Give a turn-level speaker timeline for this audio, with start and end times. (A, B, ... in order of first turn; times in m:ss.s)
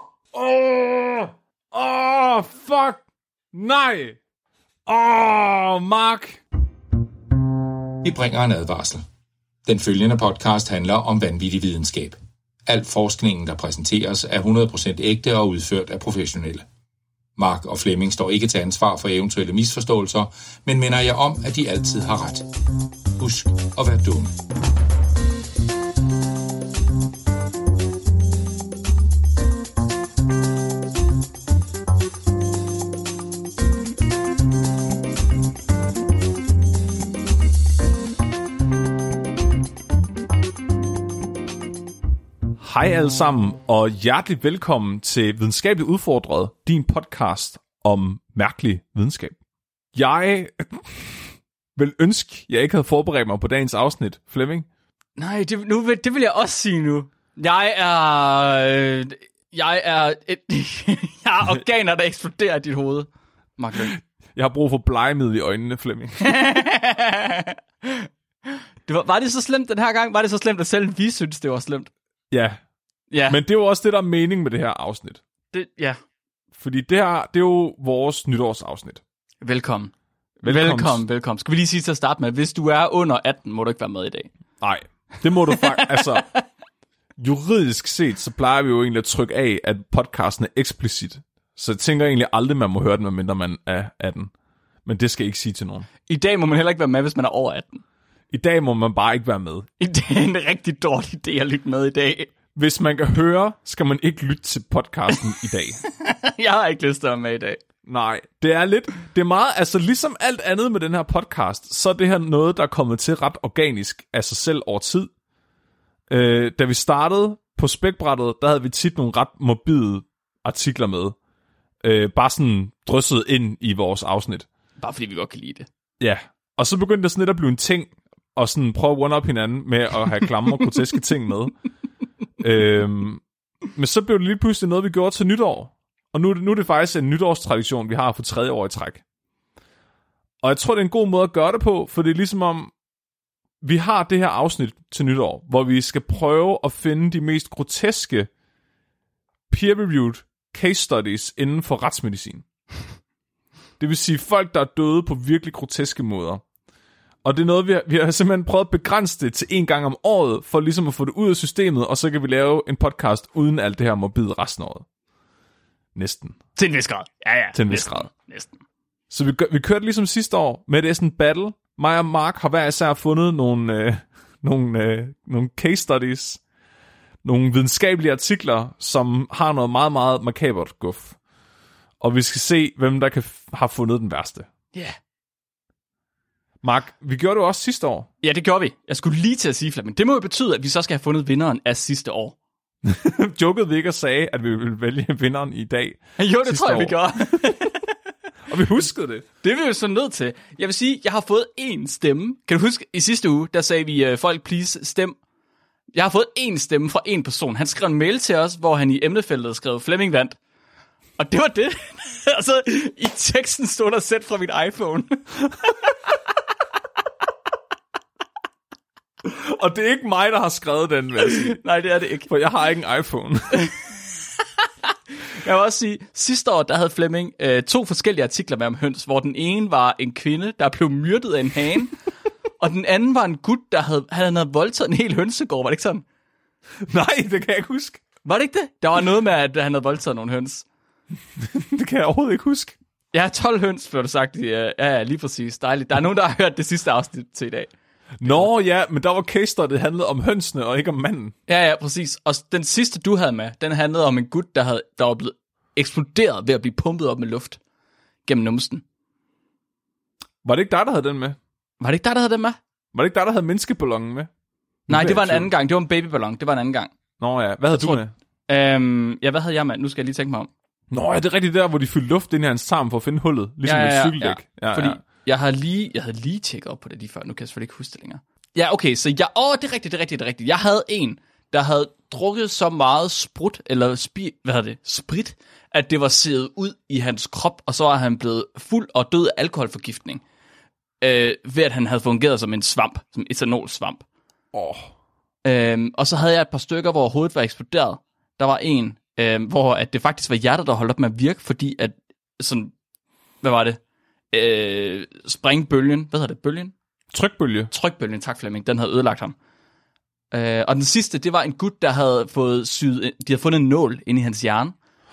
0:00.3-0:03.0 A
0:03.5-0:04.2 A
0:04.9-0:06.4 A
0:08.0-0:09.0 B
0:09.6-0:16.6 B
0:17.4-0:22.4 B
0:23.2-0:24.3 B
0:42.6-0:49.4 A
0:49.9-0:54.7 A
0:55.2-1:04.0 C
1:03.8-1:06.3 A
1:06.2-1:08.1 C
1:08.8-1:11.9 C
1:12.3-1:12.6 A
1:13.1-1:13.4 C
1:13.3-1:15.2 A
1:15.5-1:16.0 C
1:16.5-1:19.0 A
1:19.4-1:19.9 C
1:20.4-1:21.0 A
1:20.4-1:24.3 C
1:24.6-1:26.3 A
1:25.7-1:26.2 C
1:27.2-1:34.3 A
1:34.8-1:35.9 A
1:36.0-1:37.8 C
1:38.3-1:39.7 A
1:39.8-1:42.3 C
1:42.5-1:45.8 A
1:45.9-1:47.6 C
1:47.8-1:55.1 A
1:56.1-2:01.2 A
2:01.8-2:04.5 A
2:04.8-2:05.7 C
2:06.0-2:11.6 A
2:12.4-2:13.2 A
2:13.7-2:19.0 A
2:20.4-2:22.7 A
2:23.6-2:28.3 A
2:29.5-2:32.4 A
2:33.8-2:36.4 A
2:37.2-2:44.8 A
2:45.9-2:46.4 A
2:46.5-2:48.6 C
2:47.5-2:48.1 A
2:49.1-2:56.4 A
2:57.2-3:01.2 A
3:02.0-3:04.5 A
3:06.6-3:08.1 A
3:08.2-3:12.4 C
3:12.8-3:17.4 A
3:16.2-3:17.8 C
3:18.5-3:19.2 A
3:19.4-3:25.2 C
3:25.9-3:30.4 C
3:31.2-3:35.2 C
3:39.2-3:41.6 A
3:41.2-3:42.3 C
3:42.3-3:43.6 A
3:45.3-3:52.0 C
3:52.6-3:56.0 C
3:56.8-3:58.0 A
3:58.2-4:00.6 C
4:01.4-4:02.8 A
4:03.1-4:07.7 C
4:08.2-4:11.3 A
4:08.2-4:08.5 C
4:11.5-4:17.6 C
4:18.2-4:18.8 C
4:20.4-4:21.4 A
4:21.8-4:22.6 C
4:22.9-4:24.3 A
4:24.9-4:25.5 A
4:24.9-4:26.9 C
4:27.2-4:28.1 A
4:27.7-4:30.5 C
4:30.9-4:35.0 A
4:33.6-4:50.2 C
4:51.0-4:54.0 C
4:54.5-4:54.9 A
4:55.4-5:02.7 C
5:03.4-5:03.8 C
5:04.3-5:06.7 C
5:07.1-5:07.7 A
5:07.7-5:09.3 C
5:10.3-5:14.7 C